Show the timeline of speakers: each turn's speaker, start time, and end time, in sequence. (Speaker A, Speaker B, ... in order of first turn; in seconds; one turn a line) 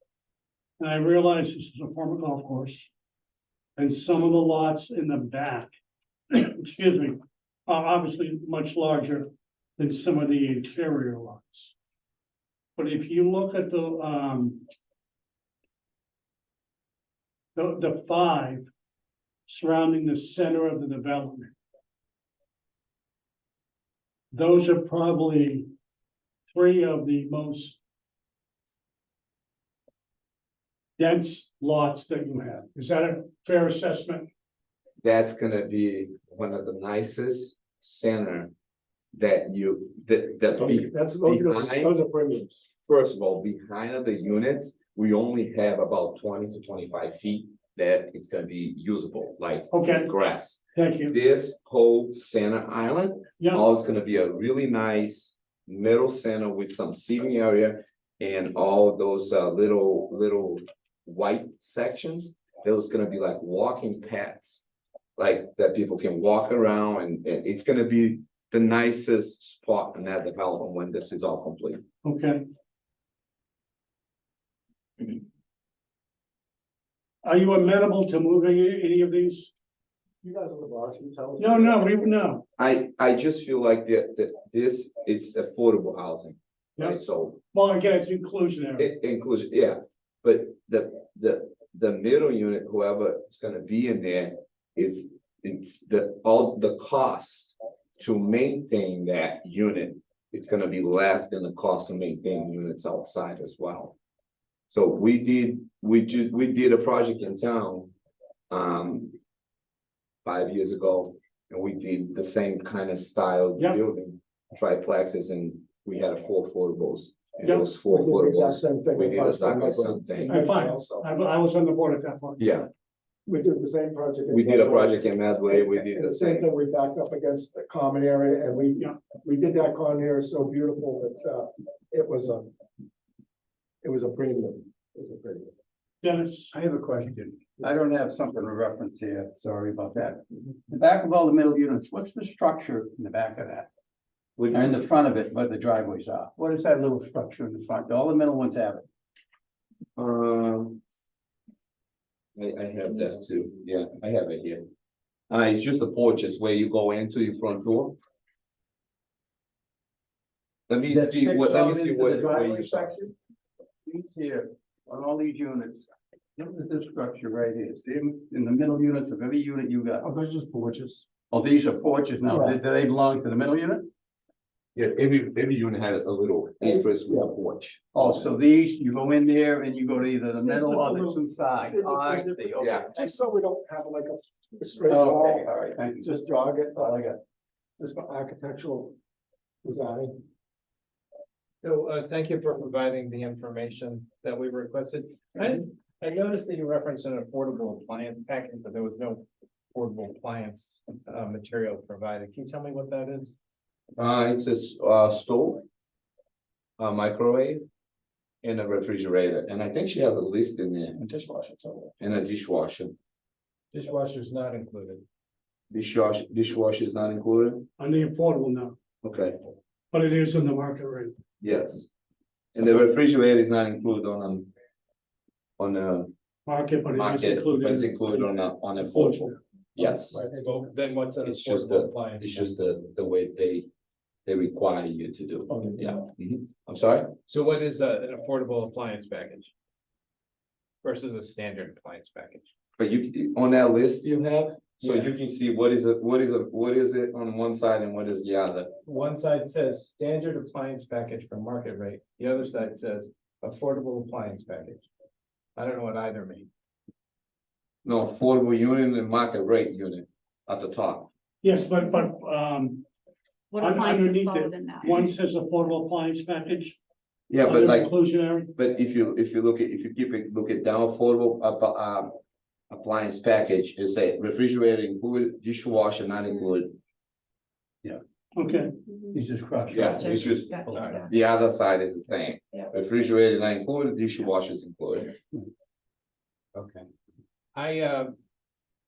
Speaker A: 0.8-2.9
Speaker A: 3.8-5.7
Speaker A: 6.3-11.7
Speaker A: 12.8-14.6
Speaker A: 17.6-18.7
Speaker A: 19.5-21.5
Speaker A: 24.3-25.7
Speaker A: 26.5-27.8
Speaker A: 31.0-34.3
Speaker B: 35.0-38.5
Speaker B: 39.1-41.9
Speaker C: 40.6-42.6
Speaker B: 42.8-64.6
Speaker A: 49.7-50.1
Speaker A: 50.8-51.2
Speaker A: 53.4-53.6
Speaker B: 65.2-71.8
Speaker A: 72.0-72.5
Speaker A: 77.2-79.5
Speaker D: 80.2-81.9
Speaker A: 81.4-82.5
Speaker B: 82.6-87.4
Speaker A: 87.5-88.9
Speaker B: 88.8-104.0
Speaker B: 104.7-107.9
Speaker B: 108.5-109.2
Speaker B: 110.2-120.4
Speaker C: 117.9-119.4
Speaker D: 119.1-121.1
Speaker C: 120.2-120.8
Speaker A: 120.3-122.7
Speaker B: 122.4-122.7
Speaker C: 123.3-124.9
Speaker B: 124.3-126.5
Speaker C: 125.5-132.5
Speaker D: 127.5-127.8
Speaker D: 130.6-131.2
Speaker C: 133.8-135.5
Speaker D: 134.7-135.2
Speaker A: 136.0-136.5
Speaker E: 136.5-143.7
Speaker B: 144.4-144.8
Speaker E: 144.5-148.9
Speaker B: 150.0-150.8
Speaker B: 152.4-154.7
Speaker B: 155.3-158.0
Speaker B: 160.7-162.9
Speaker E: 160.9-163.1
Speaker E: 163.8-170.1
Speaker E: 171.3-173.9
Speaker D: 172.3-172.6
Speaker B: 174.8-178.3
Speaker E: 177.9-183.1
Speaker C: 181.7-182.4
Speaker D: 181.9-183.9
Speaker B: 182.6-182.9
Speaker C: 183.0-185.0
Speaker D: 184.5-187.1
Speaker E: 184.9-186.2
Speaker E: 186.7-187.2
Speaker D: 187.8-188.9
Speaker D: 189.7-190.2
Speaker D: 191.6-203.4
Speaker B: 204.0-205.6
Speaker B: 206.8-207.6
Speaker B: 208.4-211.2
Speaker D: 211.2-211.9
Speaker B: 212.0-213.0
Speaker D: 213.7-215.0
Speaker B: 215.7-217.7
Speaker A: 217.8-218.8
Speaker B: 219.0-219.5
Speaker A: 219.9-221.1
Speaker B: 221.4-221.9
Speaker B: 222.5-224.5
Speaker B: 225.6-226.1
Speaker A: 226.5-228.3
Speaker B: 226.9-229.2
Speaker A: 228.8-229.4
Speaker B: 229.8-230.2
Speaker D: 230.1-232.5
Speaker B: 231.2-233.7
Speaker B: 234.3-237.2
Speaker D: 235.5-236.1
Speaker D: 237.3-239.5
Speaker D: 240.8-242.5
Speaker B: 242.8-248.8
Speaker D: 244.8-245.1
Speaker D: 248.8-254.9
Speaker D: 255.6-256.5
Speaker B: 257.8-261.1
Speaker A: 261.4-262.9
Speaker F: 263.5-265.1
Speaker A: 263.6-266.8
Speaker B: 267.3-268.0
Speaker A: 267.4-268.5
Speaker B: 268.6-272.1
Speaker B: 272.7-276.8
Speaker A: 278.4-278.8
Speaker F: 278.9-279.2
Speaker E: 279.1-280.9
Speaker B: 279.7-285.2
Speaker F: 279.9-281.1
Speaker D: 287.5-288.1